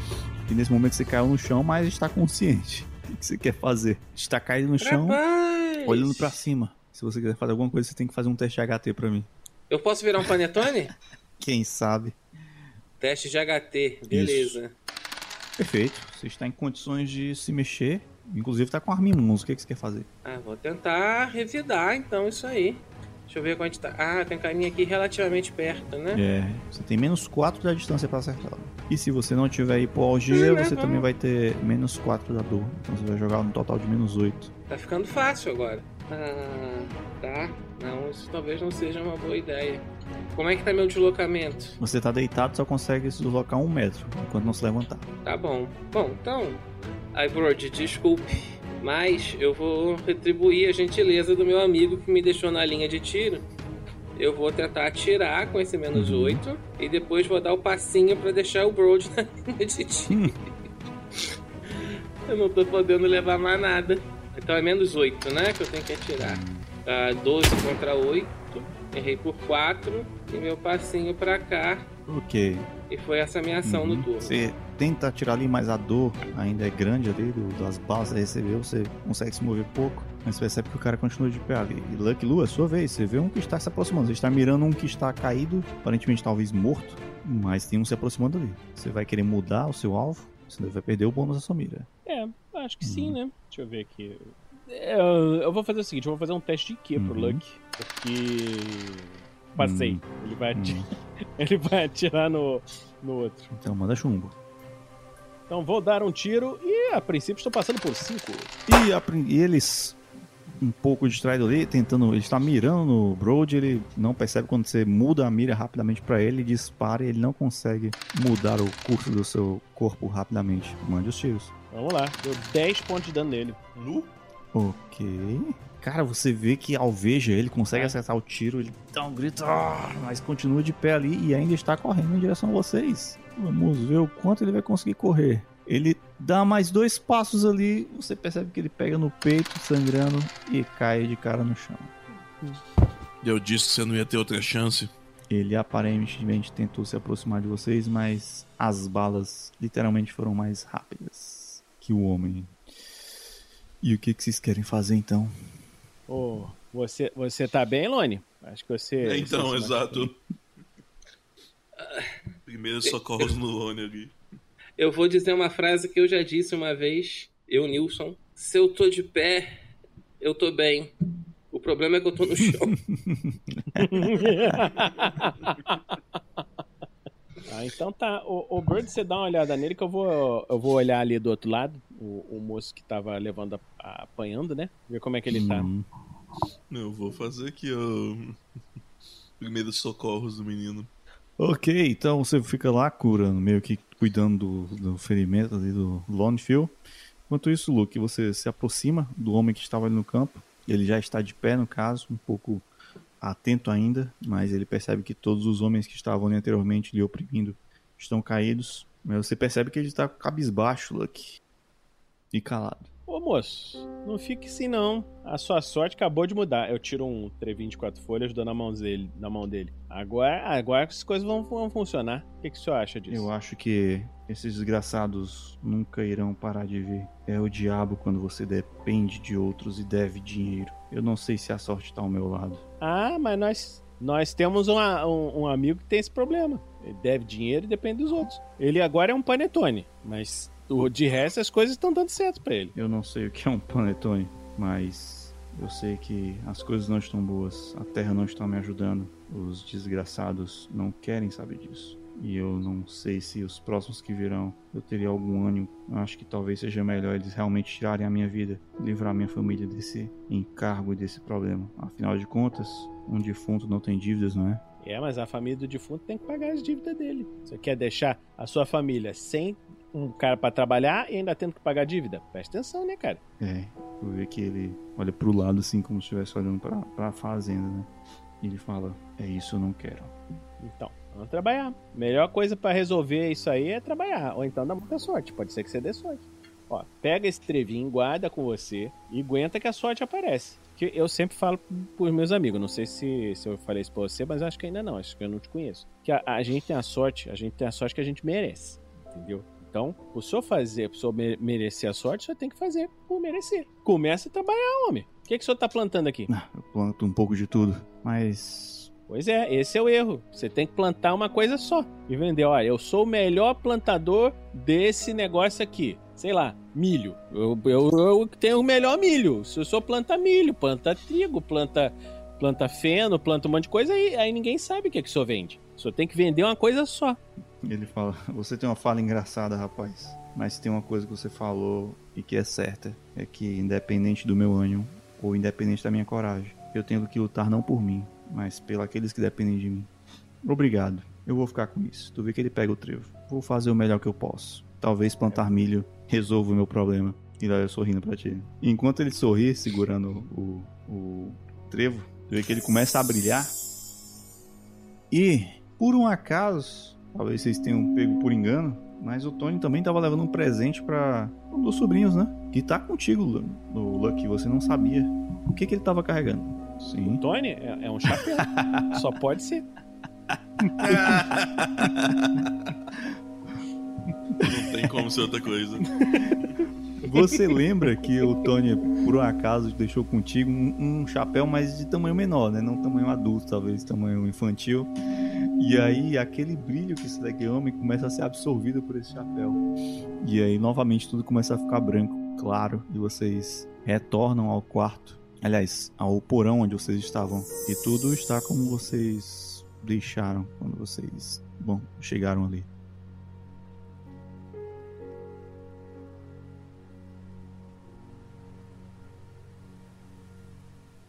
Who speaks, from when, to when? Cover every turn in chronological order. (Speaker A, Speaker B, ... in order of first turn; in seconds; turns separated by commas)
Speaker A: 0.5-5.2, Speaker B: 4.8-6.4, Speaker A: 5.8-9.3, Speaker B: 9.7-10.9, Speaker A: 11.4-12.2, Speaker B: 13.0-14.7, Speaker A: 14.1-14.6, Speaker A: 15.6-20.1, Speaker B: 20.2-26.2, Speaker A: 26.1-34.5, Speaker B: 30.3-31.1, Speaker B: 34.7-39.8, Speaker B: 40.4-41.8, Speaker A: 41.8-45.0, Speaker B: 45.2-46.6, Speaker B: 47.1-53.5, Speaker B: 54.2-60.2, Speaker A: 55.9-56.4, Speaker B: 61.7-71.9, Speaker A: 66.2-66.7, Speaker A: 72.1-72.7, Speaker B: 72.9-74.4, Speaker A: 73.6-91.9, Speaker C: 92.1-100.8, Speaker A: 92.8-93.2, Speaker A: 97.0-97.4, Speaker A: 99.6-100.0, Speaker A: 100.5-100.9, Speaker C: 101.4-103.5, Speaker A: 103.5-104.3, Speaker C: 105.5-108.5, Speaker A: 108.7-110.0, Speaker A: 110.6-121.5, Speaker C: 121.7-123.6, Speaker D: 123.8-124.1, Speaker A: 124.5-141.9, Speaker D: 143.2-144.9, Speaker A: 145.3-152.6, Speaker A: 153.8-155.3, Speaker C: 156.1-160.1, Speaker D: 159.0-160.2, Speaker B: 161.8-162.1, Speaker D: 162.5-164.2, Speaker B: 162.8-163.3, Speaker B: 164.8-169.5, Speaker B: 170.2-170.9, Speaker B: 171.5-172.8, Speaker A: 172.9-173.8, Speaker C: 173.8-176.4, Speaker C: 177.5-185.7, Speaker A: 185.3-185.9, Speaker D: 186.7-188.4, Speaker D: 189.4-190.9, Speaker A: 191.4-196.8, Speaker A: 197.3-202.7, Speaker A: 203.2-211.4, Speaker A: 212.3-212.9, Speaker C: 213.1-223.3, Speaker A: 223.1-232.6, Speaker C: 232.8-242.7, Speaker A: 242.8-264.6, Speaker C: 264.8-273.2, Speaker A: 273.4-277.9, Speaker A: 278.4-280.1, Speaker C: 280.6-306.3, Speaker A: 306.3-308.9, Speaker C: 309.1-327.2, Speaker A: 327.6-339.9, Speaker A: 340.4-353.5, Speaker A: 355.1-367.2, Speaker C: 367.2-369.7, Speaker A: 368.5-368.9, Speaker A: 370.6-371.1, Speaker D: 370.8-372.5, Speaker D: 374.4-375.9, Speaker C: 376.1-376.4, Speaker A: 377.0-384.9, Speaker A: 385.6-389.6, Speaker A: 390.2-402.7